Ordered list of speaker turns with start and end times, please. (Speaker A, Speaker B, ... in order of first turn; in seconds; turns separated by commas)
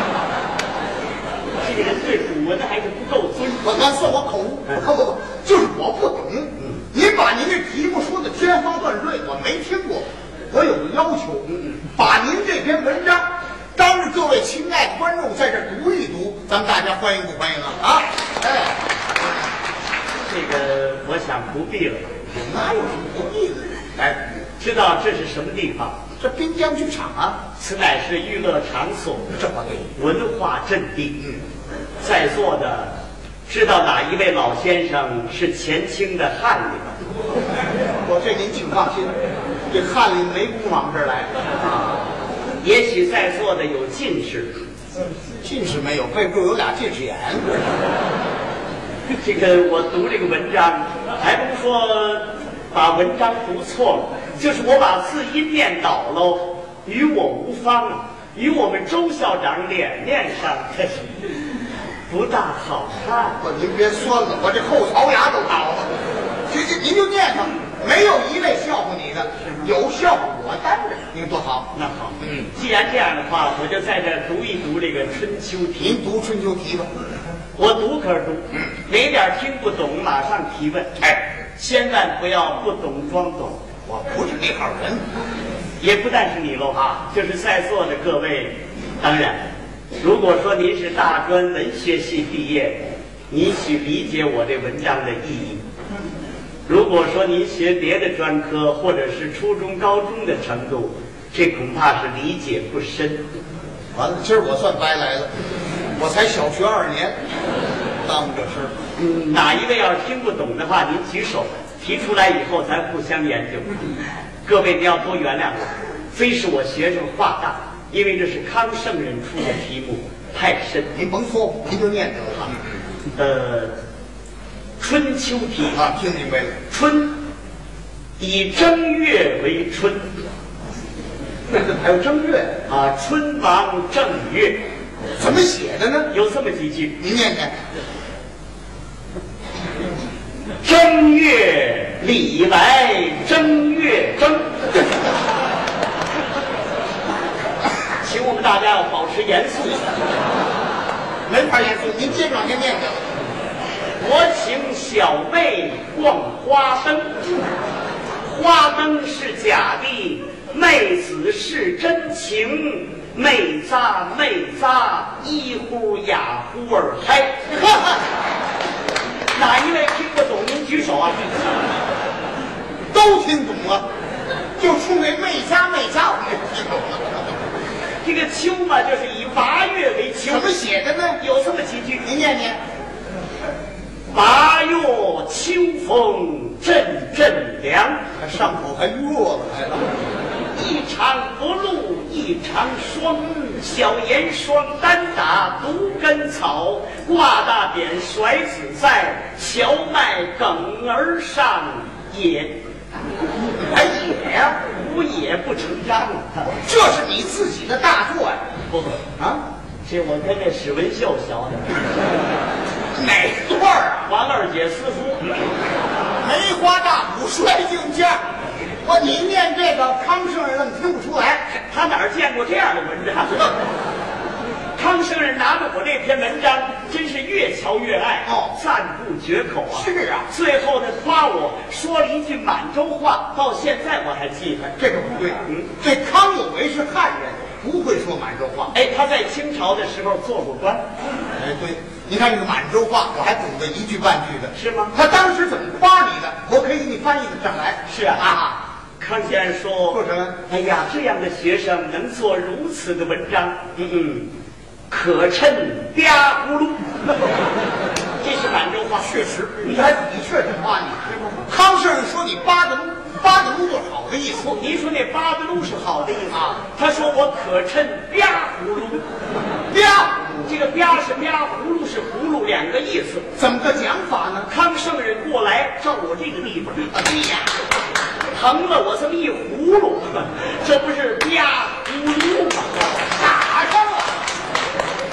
Speaker A: 1.6-3.7, Speaker B: 3.6-18.8, Speaker A: 20.2-22.1, Speaker B: 22.3-24.3, Speaker A: 24.6-26.0, Speaker B: 26.2-27.4, Speaker A: 27.6-29.3, Speaker B: 29.3-29.9, Speaker A: 29.9-31.2, Speaker A: 32.0-32.9, Speaker A: 33.5-37.0, Speaker B: 38.0-39.2, Speaker B: 39.7-42.1, Speaker A: 42.6-44.6, Speaker B: 45.4-47.8, Speaker A: 49.2-61.1, Speaker A: 62.1-63.4, Speaker B: 63.4-65.9, Speaker B: 66.5-71.7, Speaker A: 71.7-76.0, Speaker B: 75.8-76.9, Speaker A: 77.5-81.0, Speaker A: 81.5-83.7, Speaker B: 83.8-85.0, Speaker A: 85.8-89.4, Speaker B: 86.7-87.0, Speaker A: 90.0-95.6, Speaker A: 96.7-103.2, Speaker B: 103.9-105.3, Speaker B: 106.0-107.2, Speaker B: 108.0-108.7, Speaker A: 109.0-120.9, Speaker B: 120.9-122.8, Speaker A: 123.1-123.8, Speaker A: 124.8-125.8, Speaker B: 125.7-126.5, Speaker A: 126.7-127.2, Speaker A: 128.2-130.1, Speaker B: 131.5-132.6, Speaker A: 132.7-134.6, Speaker B: 135.2-136.1, Speaker A: 136.1-137.0, Speaker B: 137.0-137.5, Speaker A: 140.6-144.7, Speaker A: 148.0-150.0, Speaker B: 151.2-153.1, Speaker A: 154.0-157.2, Speaker A: 158.2-167.5, Speaker A: 169.3-171.3, Speaker B: 172.9-173.8, Speaker B: 174.6-177.3, Speaker A: 178.0-180.6, Speaker B: 180.2-181.2, Speaker A: 181.2-182.1, Speaker B: 182.0-182.6, Speaker A: 184.1-188.1, Speaker B: 188.2-189.8, Speaker A: 190.5-202.6, Speaker B: 203.5-204.6, Speaker A: 204.7-206.6, Speaker B: 206.6-208.4, Speaker A: 208.7-209.0, Speaker A: 209.8-212.0, Speaker B: 212.9-214.1, Speaker A: 214.1-215.3, Speaker B: 216.2-218.2, Speaker B: 218.8-221.4, Speaker A: 221.5-223.5, Speaker A: 224.8-234.7, Speaker B: 228.2-228.6, Speaker B: 229.7-230.3, Speaker B: 234.7-238.7, Speaker A: 235.4-235.7, Speaker A: 238.7-240.8, Speaker B: 241.3-248.6, Speaker A: 244.5-244.9, Speaker A: 247.9-248.3, Speaker A: 249.0-254.3, Speaker B: 249.9-250.3, Speaker A: 254.9-257.1, Speaker A: 258.2-259.2, Speaker B: 259.0-264.5, Speaker A: 264.3-269.0, Speaker B: 266.3-266.6, Speaker B: 269.7-270.4, Speaker A: 270.4-273.3, Speaker B: 273.4-274.5, Speaker A: 274.5-277.2, Speaker B: 277.1-277.4, Speaker A: 278.3-283.1, Speaker B: 283.1-284.2